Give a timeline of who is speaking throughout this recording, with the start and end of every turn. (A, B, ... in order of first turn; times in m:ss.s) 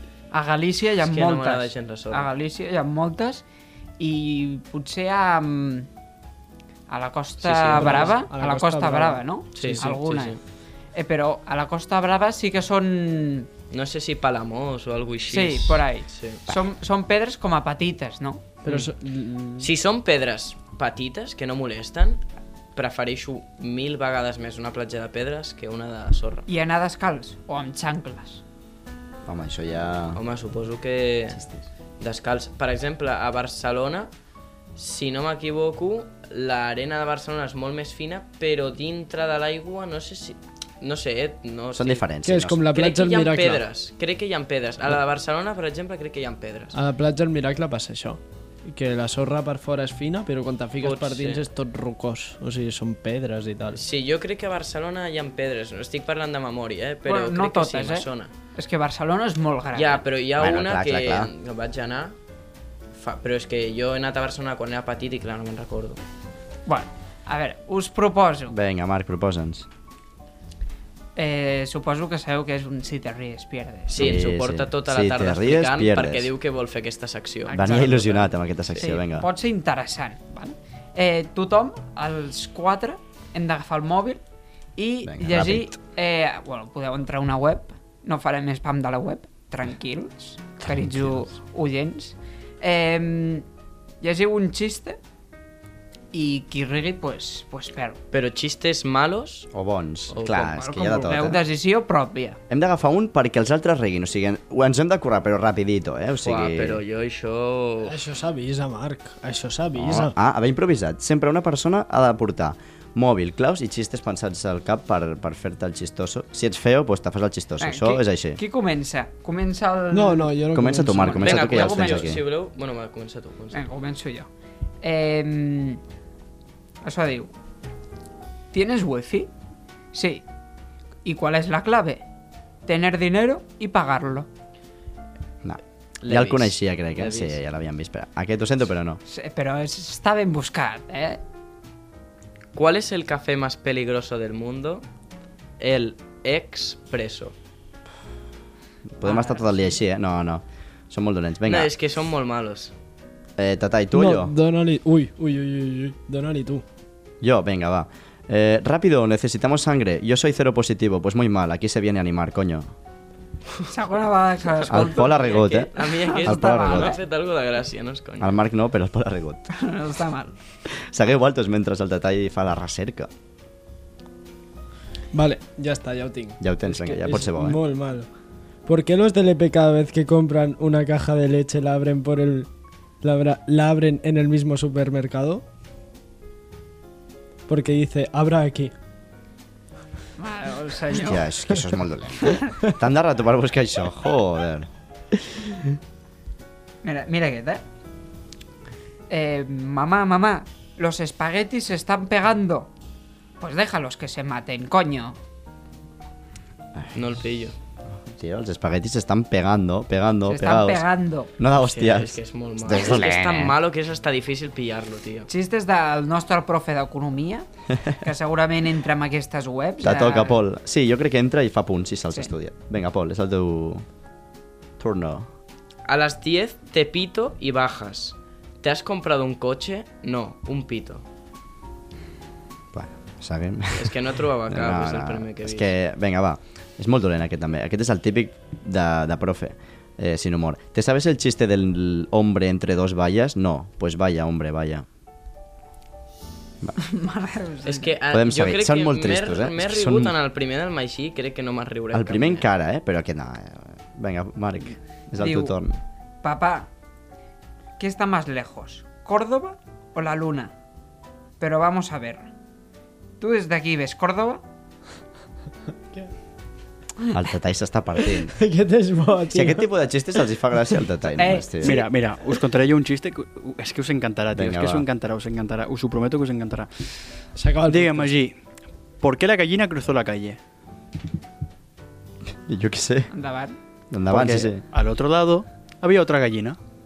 0:00.3-0:03.4 A
0:01.0-0:02.3 B
0:04.0-0:05.9 A
0:06.9-0:10.4 A
0:07.4-0:08.2 B
0:07.7-0:09.8 C
0:09.5-0:10.4 B
0:10.9-0:13.5 A
0:13.7-0:16.4 B
0:15.3-0:18.4 A
0:18.6-0:19.7 C
0:18.6-0:18.9 B
0:19.6-0:22.2 B
0:22.7-0:26.5 B
0:26.5-0:28.4 A
0:29.2-0:30.2 D
0:30.1-0:31.4 B
0:32.0-0:34.1 B
0:34.8-0:42.0 B
0:41.7-0:42.6 D
0:42.2-0:43.6 C
0:42.7-0:46.8 B
0:46.7-0:53.8 C
0:50.8-0:51.5 B
0:53.7-0:58.3 B
0:57.1-1:00.0 A
0:59.7-1:02.2 B
1:00.4-1:01.3 D
1:02.9-1:06.0 B
1:06.6-1:08.5 A
1:08.5-1:09.7 D
1:11.2-1:14.2 A
1:13.9-1:18.8 B
1:14.0-1:16.3 D
1:17.5-1:19.2 D
1:18.7-1:24.2 A
1:24.8-1:33.4 A
1:25.0-1:25.7 D
1:30.6-1:31.3 D
1:34.0-1:35.0 A
1:36.1-1:38.0 A
1:38.1-1:39.5 B
1:39.5-1:41.4 D
1:40.1-1:40.5 B
1:40.4-1:42.4 A
1:42.5-1:46.8 D
1:46.2-1:48.0 B
1:47.8-1:50.1 C
1:49.7-1:58.4 D
1:57.6-2:00.3 A
1:59.9-2:01.4 C
2:00.5-2:02.2 D
2:01.2-2:03.7 B
2:01.3-2:02.1 A
2:03.5-2:04.3 A
2:04.8-2:05.8 A
2:06.8-2:07.3 A
2:08.5-2:09.3 A
2:09.9-2:10.2 A
2:11.0-2:12.0 A
2:12.6-2:14.3 A
2:15.4-2:19.0 D
2:16.0-2:17.4 B
2:19.0-2:21.2 A
2:22.5-2:24.8 B
2:25.6-2:27.3 B
2:29.0-2:31.7 D
2:29.0-2:29.8 A
2:31.4-2:32.7 B
2:33.4-2:34.3 D
2:33.9-2:36.6 C
2:37.2-2:42.6 D
2:43.7-2:47.0 A
2:44.6-2:48.3 B
2:44.7-2:45.7 D
2:46.2-2:47.0 D
2:48.2-2:49.5 D
2:49.5-2:50.4 A
2:50.7-2:53.1 D
2:55.1-2:58.1 C
2:56.4-2:57.6 D
2:58.6-3:02.5 C
3:03.0-3:05.4 C
3:07.5-3:08.7 C
3:10.2-3:11.3 A
3:10.9-3:14.7 D
3:16.8-3:17.6 A
3:19.1-3:22.7 A
3:23.4-3:25.2 A
3:26.9-3:27.5 B
3:28.0-3:30.8 D
3:30.3-3:31.3 A
3:31.4-3:33.5 D
3:31.5-3:35.3 B
3:35.3-3:40.4 A
3:39.8-3:43.8 D
3:44.8-3:45.3 D
3:45.8-3:51.0 B
3:52.7-4:04.8 D
3:53.7-3:55.7 B
4:06.8-4:08.0 A
4:07.6-4:12.4 B
4:08.1-4:10.2 D
4:11.9-4:15.8 D
4:15.2-4:15.6 A
4:16.2-4:16.7 A
4:17.8-4:20.5 A
4:21.4-4:22.3 A
4:23.2-4:24.4 A
4:27.1-4:28.3 D
4:28.2-4:29.7 C
4:29.3-4:31.8 D
4:31.2-4:31.7 A
4:31.6-4:36.7 E
4:34.3-4:34.8 D
4:37.4-4:38.1 C
4:37.7-4:38.3 E
4:39.0-4:40.4 E
4:42.3-4:43.1 D
4:43.1-4:43.6 A
4:43.9-4:44.6 D
4:44.1-4:46.6 E